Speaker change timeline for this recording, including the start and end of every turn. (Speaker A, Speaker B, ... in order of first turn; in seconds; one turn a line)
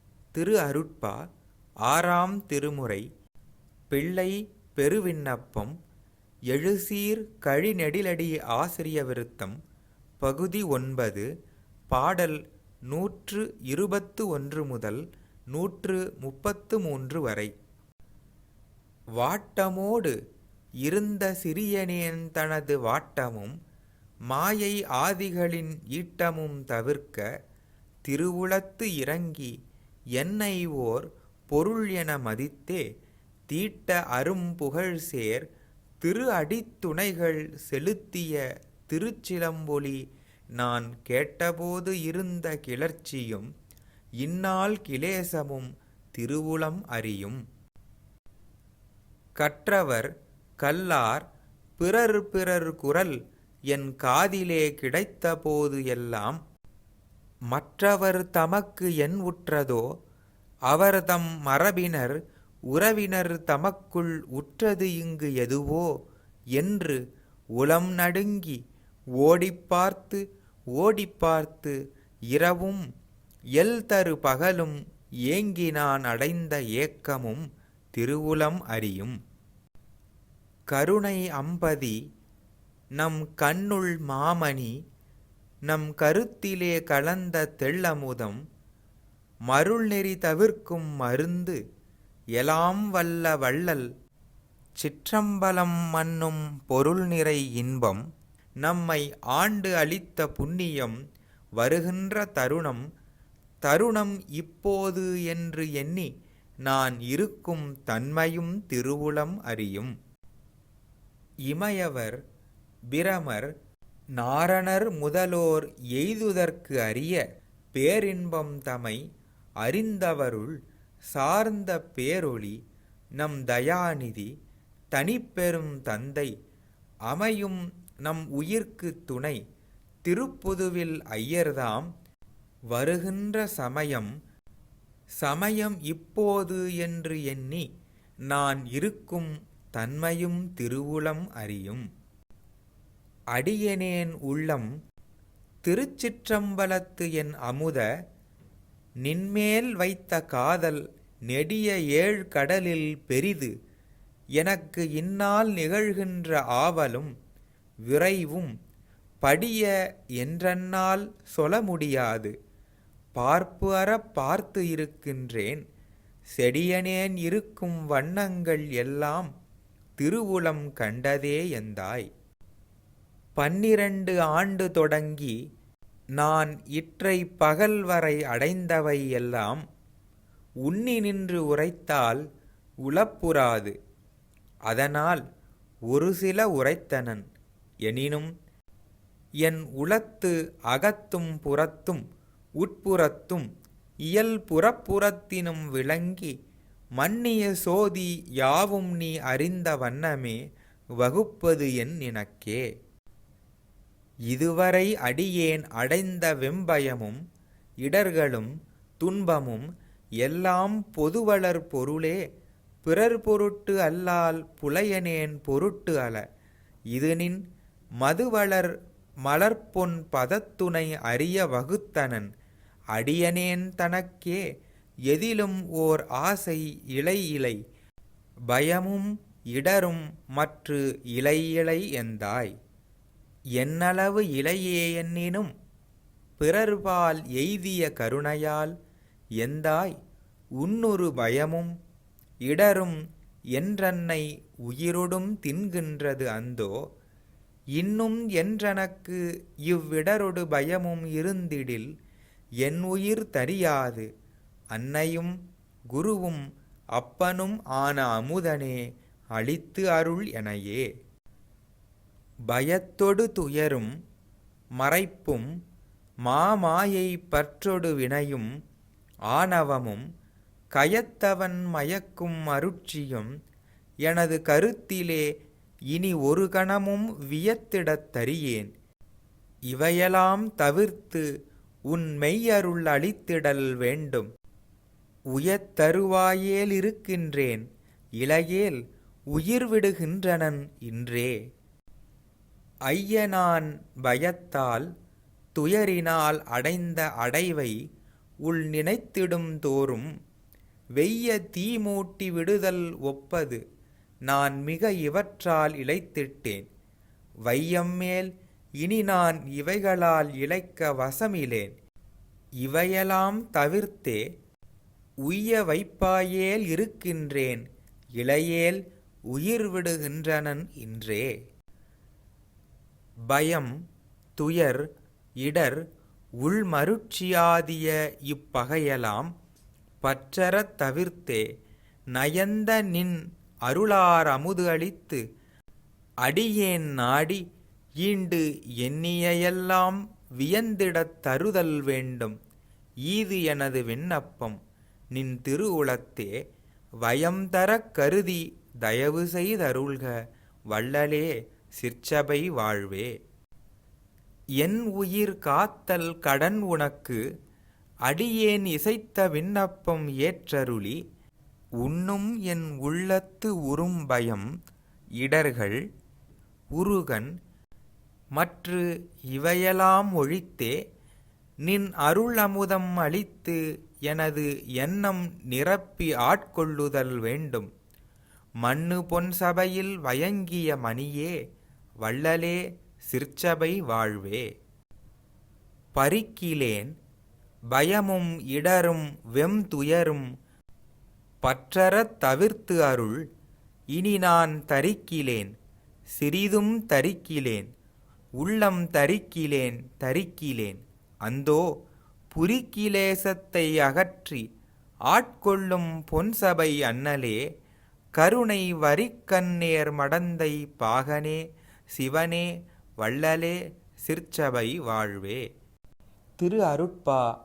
Speaker A: 0.3-1.2
Speaker A: 1.9-3.0
Speaker A: 3.9-5.8
Speaker A: 6.5-9.6
Speaker A: 10.2-11.3
Speaker A: 11.9-17.5
Speaker A: 19.2-20.1
Speaker A: 20.8-23.5
Speaker A: 24.3-27.2
Speaker A: 28.1-29.5
Speaker A: 30.2-32.8
Speaker A: 33.5-35.5
Speaker A: 36.0-40.0
Speaker A: 40.5-43.5
Speaker A: 44.2-47.4
Speaker A: 49.4-50.1
Speaker A: 50.6-51.2
Speaker A: 51.8-53.1
Speaker A: 53.7-56.4
Speaker A: 57.5-59.8
Speaker A: 60.7-62.2
Speaker A: 62.7-65.9
Speaker A: 66.5-67.0
Speaker A: 67.6-68.6
Speaker A: 69.2-70.2
Speaker A: 70.8-71.8
Speaker A: 72.3-72.8
Speaker A: 73.6-77.4
Speaker A: 77.9-79.2
Speaker A: 80.7-82.0
Speaker A: 83.0-84.7
Speaker A: 85.7-88.4
Speaker A: 89.5-91.6
Speaker A: 92.4-93.8
Speaker A: 94.8-98.0
Speaker A: 98.6-101.0
Speaker A: 101.6-102.8
Speaker A: 103.6-106.1
Speaker A: 106.7-109.9
Speaker A: 111.5-112.2
Speaker A: 112.9-113.5
Speaker A: 114.2-117.2
Speaker A: 117.7-119.0
Speaker A: 119.6-120.5
Speaker A: 121.1-122.6
Speaker A: 123.2-124.3
Speaker A: 124.9-126.3
Speaker A: 127.1-129.4
Speaker A: 130.1-131.9
Speaker A: 132.7-134.1
Speaker A: 135.2-137.7
Speaker A: 138.3-141.8
Speaker A: 143.3-144.7
Speaker A: 145.6-147.8
Speaker A: 149.0-153.5
Speaker A: 154.4-157.1
Speaker A: 157.9-158.5
Speaker A: 159.2-162.3
Speaker A: 163.2-165.6
Speaker A: 166.4-169.3
Speaker A: 170.0-172.1
Speaker A: 173.3-175.3
Speaker A: 176.2-179.6
Speaker A: 180.7-182.2
Speaker A: 182.8-183.7
Speaker A: 184.7-185.2
Speaker A: 185.9-187.3
Speaker A: 187.8-188.3
Speaker A: 189.4-192.0
Speaker A: 192.6-193.4
Speaker A: 194.1-196.3
Speaker A: 197.0-200.4
Speaker A: 201.0-202.6
Speaker A: 204.3-207.2
Speaker A: 207.8-208.5
Speaker A: 209.0-209.7
Speaker A: 210.2-212.2
Speaker A: 212.8-216.2
Speaker A: 216.9-217.4
Speaker A: 218.0-218.7
Speaker A: 219.2-222.3
Speaker A: 222.9-224.4
Speaker A: 225.1-227.6
Speaker A: 228.5-232.5
Speaker A: 233.6-235.5
Speaker A: 236.4-238.7
Speaker A: 239.4-239.9
Speaker A: 240.6-241.7
Speaker A: 242.4-243.0
Speaker A: 243.6-246.7
Speaker A: 247.8-251.9
Speaker A: 252.6-254.1
Speaker A: 254.7-255.3
Speaker A: 255.9-256.4
Speaker A: 256.9-258.8
Speaker A: 259.3-260.8
Speaker A: 262.5-263.9
Speaker A: 264.8-265.5
Speaker A: 266.2-268.5
Speaker A: 269.3-270.0
Speaker A: 270.8-273.3
Speaker A: 274.1-275.3
Speaker A: 275.9-278.7
Speaker A: 279.7-281.2
Speaker A: 281.9-284.3
Speaker A: 285.3-287.6
Speaker A: 288.2-288.8
Speaker A: 289.3-291.3
Speaker A: 292.9-294.9
Speaker A: 295.6-297.8
Speaker A: 298.4-300.1
Speaker A: 301.0-303.6
Speaker A: 304.3-306.6
Speaker A: 307.4-311.7
Speaker A: 312.6-314.2
Speaker A: 315.2-317.6
Speaker A: 318.2-321.3
Speaker A: 323.3-323.7
Speaker A: 324.4-324.8
Speaker A: 325.4-325.8
Speaker A: 326.4-329.3
Speaker A: 330.0-331.4
Speaker A: 332.1-335.2
Speaker A: 336.2-337.4
Speaker A: 338.0-342.4
Speaker A: 343.1-344.6
Speaker A: 345.1-346.3
Speaker A: 347.0-350.1
Speaker A: 350.7-353.1
Speaker A: 354.6-357.2
Speaker A: 358.1-361.0
Speaker A: 361.8-364.5
Speaker A: 365.2-365.8
Speaker A: 366.7-367.3
Speaker A: 368.4-370.7
Speaker A: 371.6-377.7
Speaker A: 378.6-381.3
Speaker A: 382.0-384.4
Speaker A: 385.9-386.9
Speaker A: 387.7-390.2
Speaker A: 391.4-393.2
Speaker A: 393.9-395.5
Speaker A: 396.1-397.7
Speaker A: 398.4-401.6
Speaker A: 402.3-404.4
Speaker A: 405.1-407.4
Speaker A: 408.2-411.4
Speaker A: 411.9-412.5
Speaker A: 413.0-415.4
Speaker A: 416.4-417.2